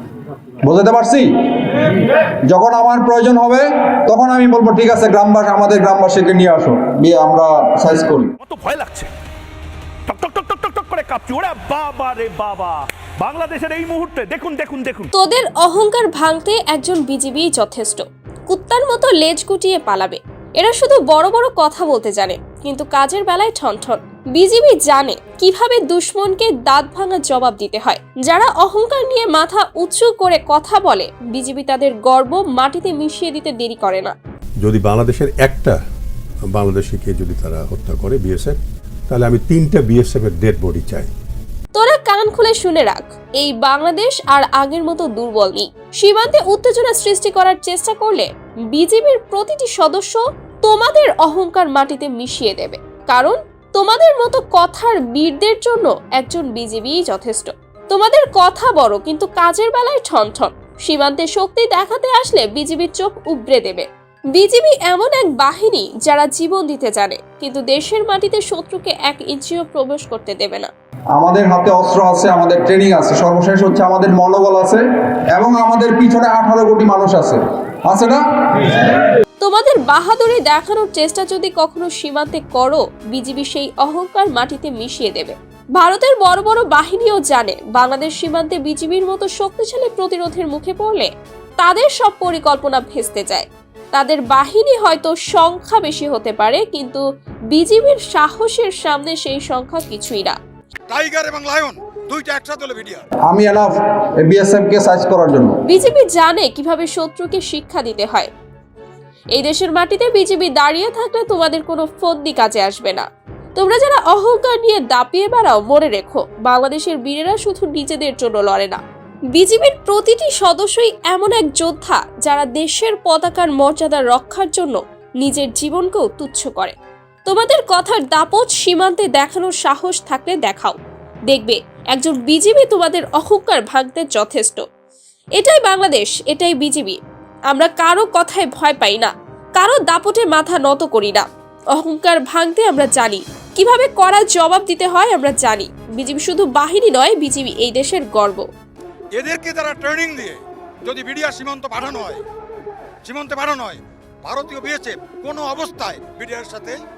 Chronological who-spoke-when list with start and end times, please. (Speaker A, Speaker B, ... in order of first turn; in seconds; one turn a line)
Speaker A: 0.6-1.3
Speaker A: 2.5-8.3
Speaker B: 8.4-9.1
Speaker B: 10.1-15.1
Speaker C: 15.1-34.1
Speaker D: 34.6-35.8
Speaker D: 36.5-41.1
Speaker C: 41.8-70.7
Speaker A: 71.2-78.2
Speaker C: 79.4-91.1
Speaker C: 91.6-100.4
Speaker E: 100.9-103.0
Speaker A: 103.3-105.5
Speaker C: 105.7-108.3
Speaker C: 109.3-118.8
Speaker C: 119.3-126.8
Speaker C: 127.3-130.8
Speaker C: 131.3-134.6
Speaker C: 135.4-137.0
Speaker C: 137.5-141.3
Speaker C: 141.8-148.5
Speaker E: 149.1-152.2
Speaker E: 153.0-156.8